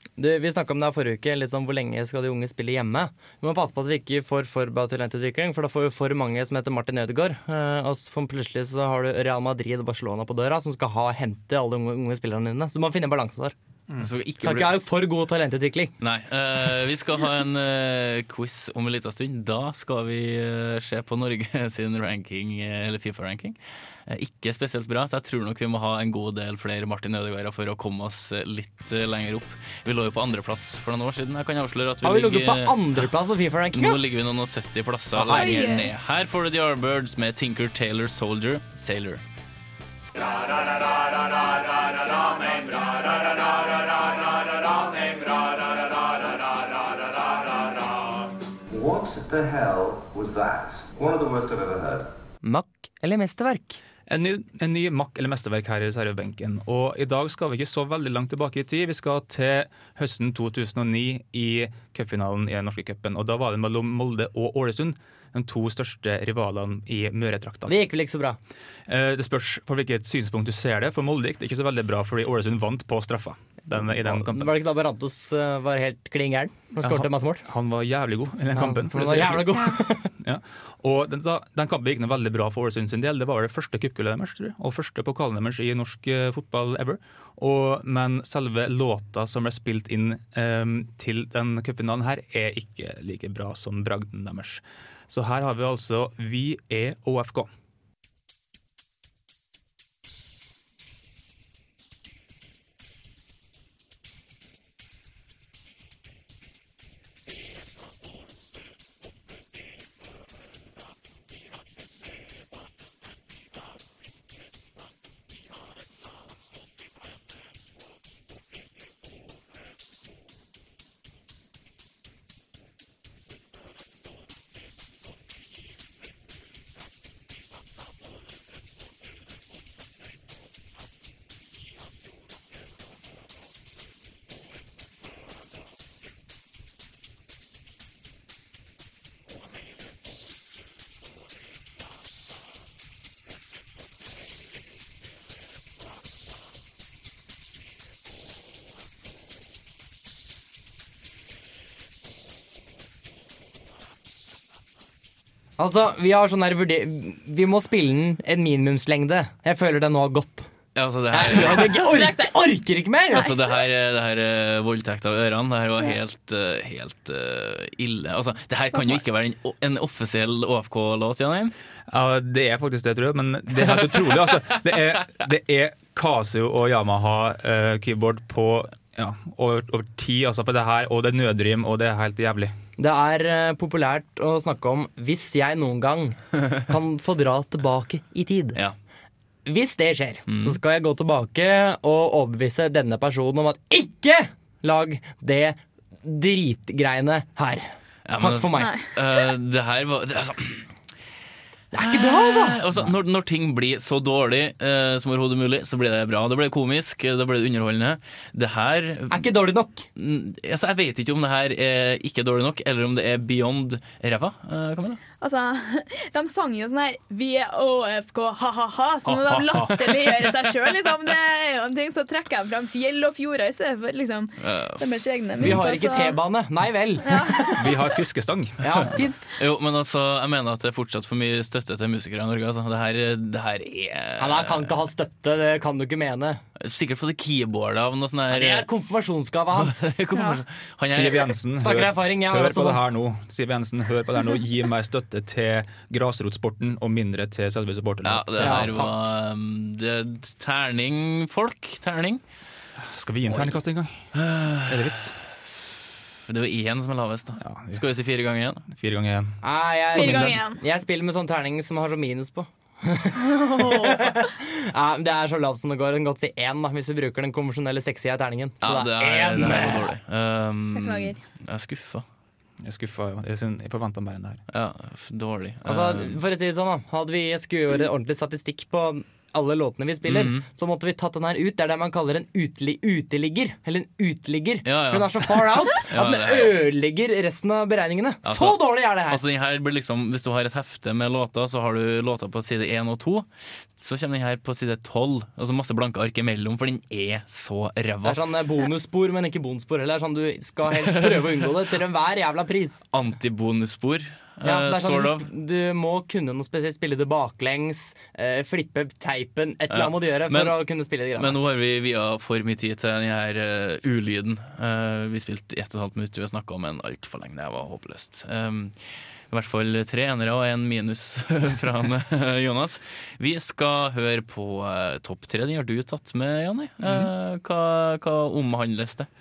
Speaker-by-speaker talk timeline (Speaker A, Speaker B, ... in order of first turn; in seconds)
Speaker A: 0.2-13.6, 14.4-15.9, 32.0-34.0, 35.1-35.7, 52.4-53.8, 67.7-68.4, 73.9-77.5, 78.5-80.1, 155.6-160.5, 161.1-163.3, 182.8-188.6, 189.4-198.7, 201.7-202.6, 209.1-209.8, 225.4-227.7, 228.6-229.3, 234.2-236.4, 238.3-239.8, 241.6-242.8, 248.4-249.1, 259.4-269.9, 275.7-289.2, 298.0-302.8, 304.4-311.4
Speaker B: 14.0-14.8, 16.0-33.1, 33.7-39.2, 42.5-43.1, 160.8-161.9, 163.1-171.5, 173.7-174.6, 190.3-190.6, 198.1-200.7, 201.8-209.3, 210.0-215.0, 219.1-219.8, 224.4-224.9, 229.4-234.7, 236.6-238.7, 239.5-241.3, 248.1-252.2, 254.1-255.1, 256.3-258.7, 268.6-272.1, 274.5-276.2, 280.1-280.4, 284.6-286.6, 288.2-293.3, 293.8-298.2, 300.8-301.4, 302.9-305.3, 309.7-310.6, 311.2-318.8, 319.3-329.1
Speaker C: 35.3-35.9, 161.6-162.3, 198.6-198.9, 215.2-226.2, 227.1-227.8, 259.9-260.6, 263.2-264.2, 270.7-271.2
Speaker D: 48.7-52.1
Speaker E: 54.1-67.7, 68.9-74.5, 76.8-97.5, 171.9-182.5, 219.3-219.6, 227.5-229.0, 240.8-248.8, 252.8-254.1, 254.7-255.2, 257.4-257.8, 258.7-259.4, 259.9-260.4, 272.6-274.4, 326.8-327.1